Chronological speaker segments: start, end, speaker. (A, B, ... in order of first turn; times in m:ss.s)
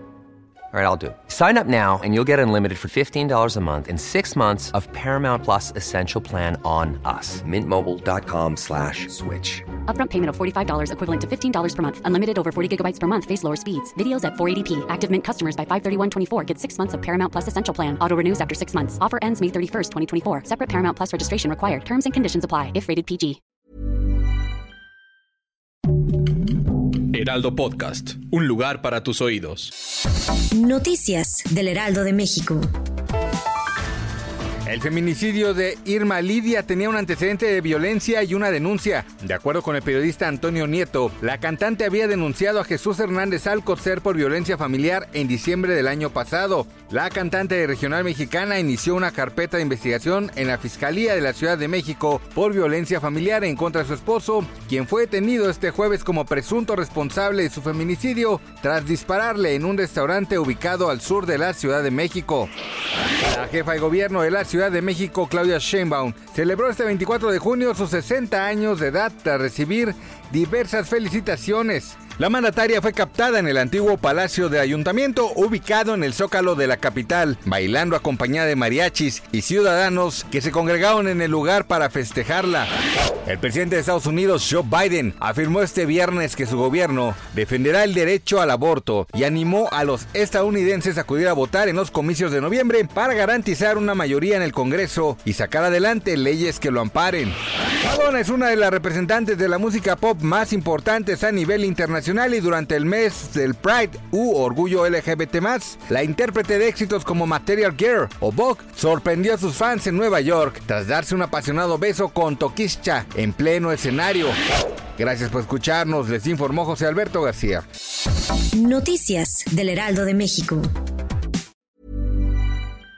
0:00.7-0:09.6 A
0:09.9-0:23.4 B
0:27.1-0:29.7 C
0:30.5-0:32.6 D
0:34.6-1:02.5 E
1:03.2-1:22.7 E
1:23.2-1:54.3 E
1:55.0-1:57.6 E
1:58.6-2:00.6 D